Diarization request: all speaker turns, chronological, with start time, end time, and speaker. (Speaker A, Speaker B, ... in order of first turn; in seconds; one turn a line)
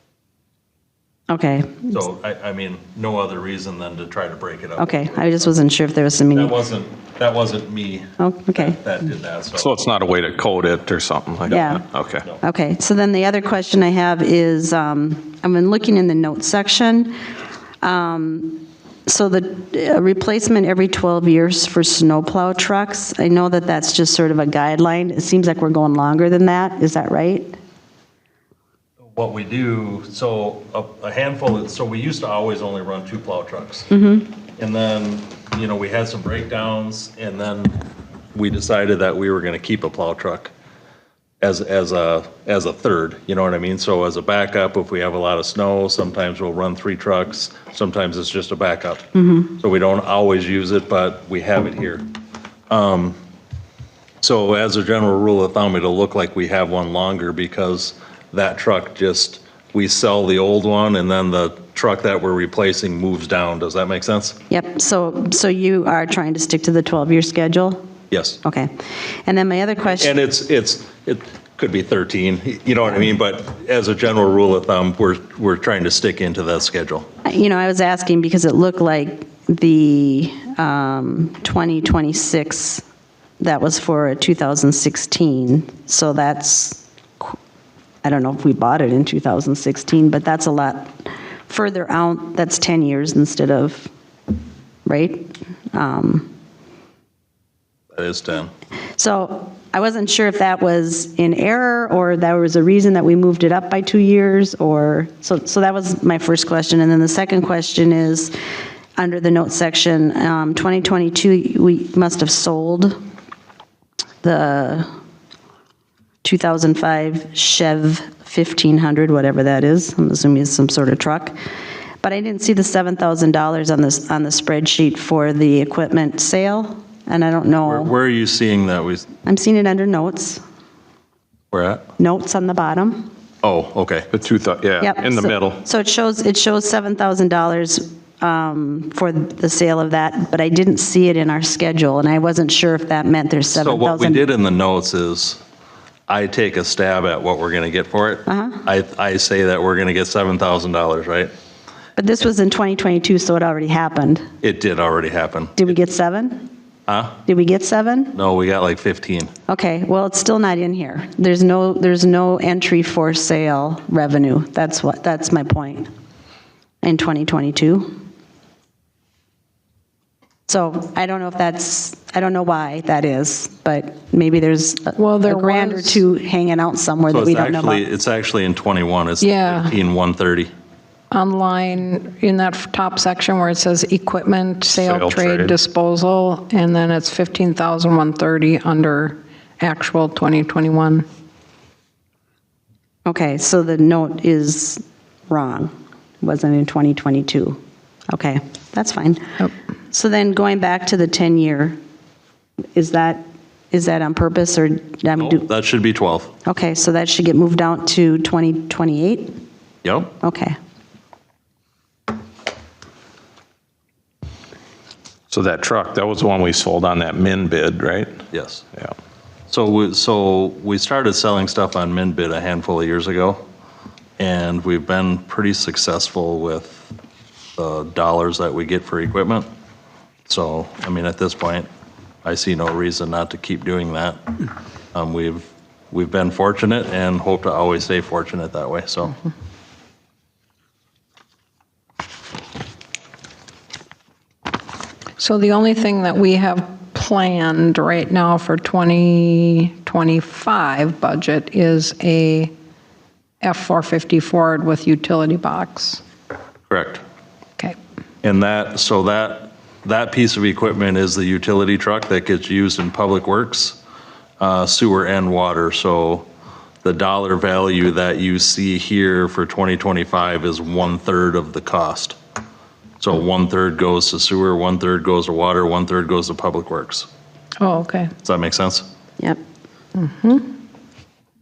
Speaker A: 1.3-2.0
Speaker B: 1.9-5.6
Speaker A: 4.8-6.5
Speaker B: 6.3-9.8
Speaker A: 8.2-8.8
Speaker C: 9.5-12.2
Speaker A: 11.5-11.8
Speaker A: 12.4-17.1
Speaker A: 17.8-27.6
Speaker B: 29.0-33.9
Speaker A: 33.9-34.3
Speaker B: 34.6-37.8
Speaker B: 38.3-40.5
Speaker B: 41.4-52.0
Speaker A: 49.1-49.5
Speaker B: 52.7-53.1
Speaker B: 54.2-64.4
Speaker A: 64.5-67.8
Speaker B: 68.1-68.4
Speaker A: 68.4-68.7
Speaker A: 69.2-70.1
Speaker B: 69.8-77.1
Speaker A: 77.2-82.8
Speaker A: 83.4-87.3
Speaker A: 88.0-90.9
Speaker A: 91.5-93.9
Speaker A: 94.8-96.3
Speaker B: 98.0-98.5
Speaker A: 99.0-108.3
Speaker A: 109.0-113.0
Speaker A: 114.2-114.9
Speaker A: 116.2-121.3
Speaker A: 122.0-127.9
Speaker B: 127.6-129.1
Speaker A: 129.2-130.4
Speaker B: 131.5-131.8
Speaker A: 132.0-133.1
Speaker B: 133.4-134.1
Speaker C: 134.1-135.6
Speaker A: 134.8-144.2
Speaker B: 143.5-145.4
Speaker B: 146.1-151.3
Speaker A: 148.2-148.6
Speaker A: 152.0-154.2
Speaker B: 154.4-155.7
Speaker A: 155.6-156.5
Speaker B: 156.9-157.2
Speaker A: 157.2-158.2
Speaker B: 158.1-159.3
Speaker A: 159.5-165.9
Speaker A: 166.8-167.9
Speaker A: 170.5-177.8
Speaker D: 175.0-176.0
Speaker B: 177.1-180.5
Speaker D: 179.2-179.8
Speaker D: 181.1-191.1
Speaker C: 184.7-185.6
Speaker A: 193.1-197.6
Speaker A: 198.1-199.2
Speaker A: 199.9-201.8
Speaker A: 202.8-205.5
Speaker B: 205.2-206.3
Speaker A: 206.4-209.4
Speaker B: 209.8-210.1
Speaker A: 210.2-210.6
Speaker C: 215.3-218.2
Speaker B: 218.3-218.6
Speaker B: 219.5-223.4
Speaker B: 224.2-226.9
Speaker B: 227.6-229.5
Speaker B: 230.2-231.7
Speaker B: 232.2-239.2
Speaker D: 245.2-252.5
Speaker D: 253.4-256.0
Speaker B: 256.7-257.0
Speaker B: 258.2-263.8
Speaker B: 264.4-266.2
Speaker B: 266.8-272.2
Speaker B: 273.0-277.1
Speaker D: 277.6-278.1
Speaker B: 278.2-278.9
Speaker D: 279.9-280.4